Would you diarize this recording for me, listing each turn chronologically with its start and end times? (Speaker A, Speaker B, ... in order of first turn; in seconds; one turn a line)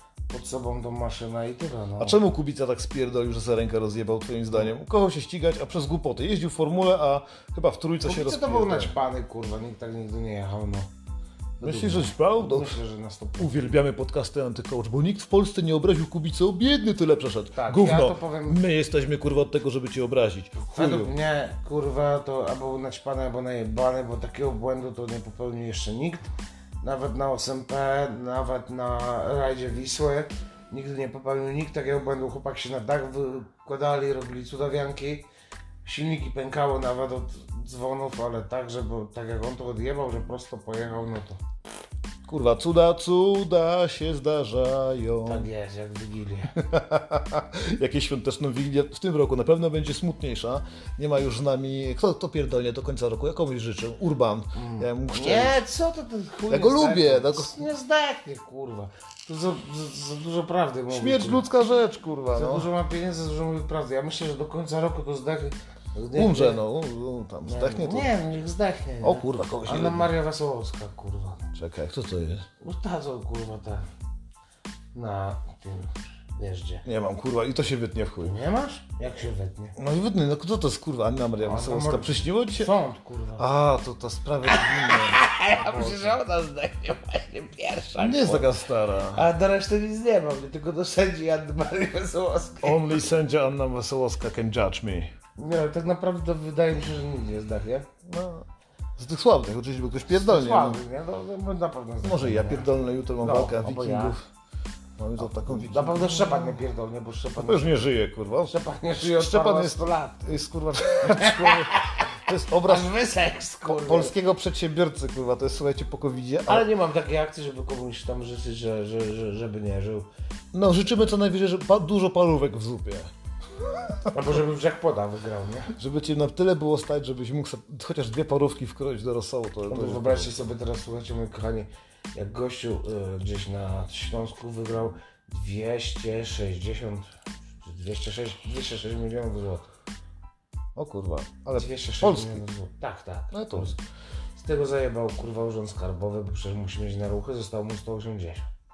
Speaker A: 0.3-2.2
Speaker B: 2.0-8.9
Speaker A: 8.0-10.9
Speaker A: 11.6-13.8
Speaker B: 11.6-12.8
Speaker B: 13.4-21.1
Speaker A: 17.6-18.6
Speaker A: 20.6-26.3
Speaker A: 26.8-35.2
Speaker A: 35.9-41.4
Speaker B: 42.3-45.5
Speaker A: 45.2-46.6
Speaker B: 46.5-55.6
Speaker A: 54.5-61.5
Speaker B: 56.5-57.6
Speaker B: 60.9-62.7
Speaker A: 62.3-66.6
Speaker B: 66.1-68.2
Speaker A: 67.4-71.5
Speaker B: 69.0-70.1
Speaker B: 71.5-72.5
Speaker A: 72.6-73.9
Speaker A: 74.9-76.8
Speaker B: 76.8-78.3
Speaker A: 78.2-79.8
Speaker B: 79.8-82.7
Speaker A: 81.4-83.5
Speaker B: 83.4-86.2
Speaker A: 84.5-88.5
Speaker B: 88.0-89.2
Speaker A: 89.1-93.0
Speaker B: 92.6-95.1
Speaker A: 95.4-97.9
Speaker B: 98.0-98.5
Speaker B: 99.0-100.8
Speaker A: 100.1-102.7
Speaker B: 102.0-104.3
Speaker A: 103.2-104.2
Speaker B: 105.0-106.6
Speaker A: 105.2-107.8
Speaker B: 107.4-112.9
Speaker A: 108.5-110.2
Speaker A: 111.0-114.2
Speaker B: 113.7-116.7
Speaker A: 116.5-120.1
Speaker B: 120.5-124.2
Speaker A: 124.1-125.7
Speaker B: 125.7-130.5
Speaker A: 129.7-137.1
Speaker A: 137.6-139.7
Speaker B: 140.8-142.4
Speaker A: 141.6-143.8
Speaker B: 143.3-143.7
Speaker A: 144.4-148.5